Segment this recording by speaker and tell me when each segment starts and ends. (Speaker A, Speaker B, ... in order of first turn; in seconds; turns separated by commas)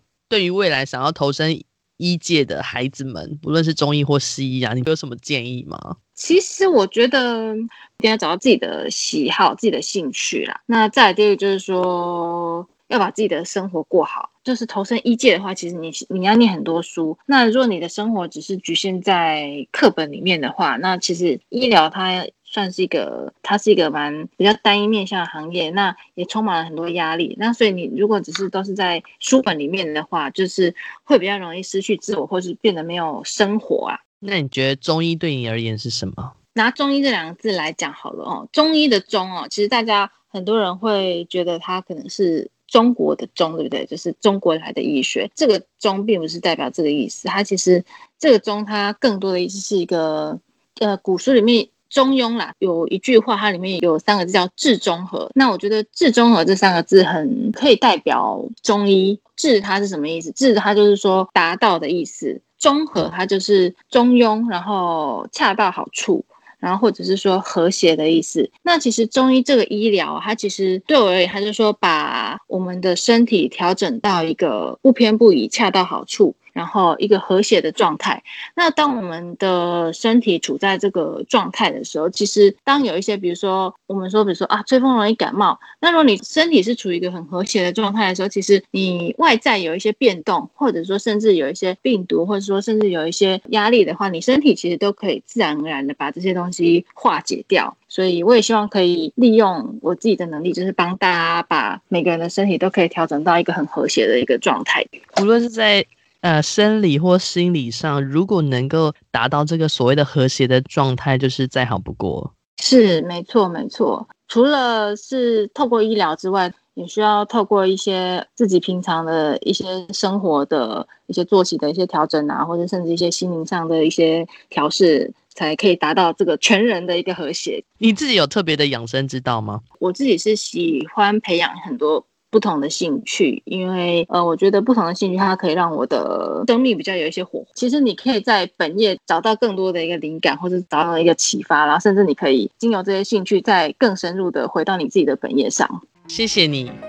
Speaker A: 0.3-6.0, Speaker B: 6.2-34.0, Speaker A: 34.2-36.3, Speaker B: 36.5-104.9, Speaker A: 105.1-112.3, Speaker B: 112.6-127.6, Speaker A: 127.8-129.6, Speaker B: 129.8-145.8, Speaker A: 146.1-146.8